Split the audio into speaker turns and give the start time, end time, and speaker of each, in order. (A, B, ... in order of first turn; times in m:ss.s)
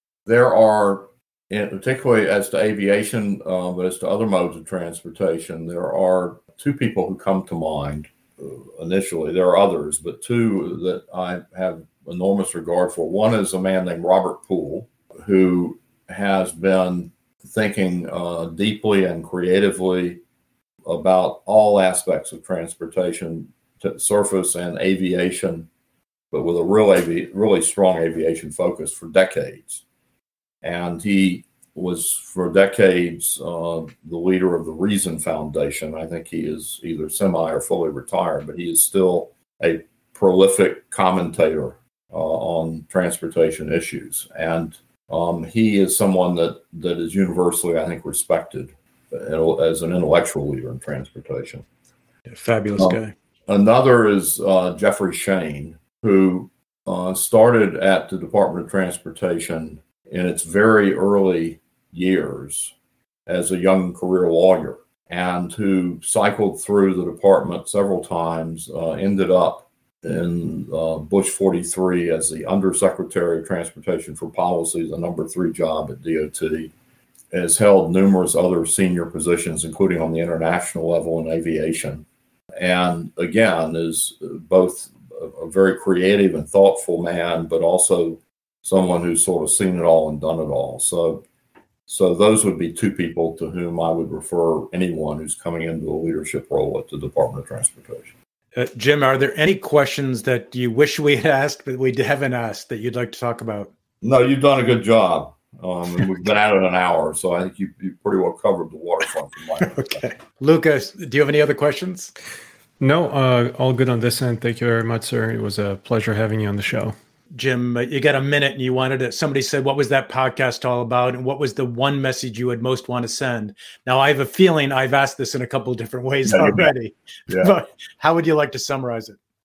0:00.3-0:20.2 A
0:20.9-0:25.7 A
0:26.3-0:29.8 A
0:30.6-0:51.6 A
0:52.3-0:53.1 B
0:52.8-1:02.7 A
1:03.3-1:16.7 A
1:17.3-1:22.0 A
1:22.6-1:31.2 A
1:31.9-1:38.1 A
1:38.6-1:43.7 B
1:44.0-1:50.0 A
1:49.6-1:52.1 B
1:52.8-1:56.9 C
1:57.3-2:09.2 B
2:06.3-2:06.7 A
2:07.3-2:07.6 A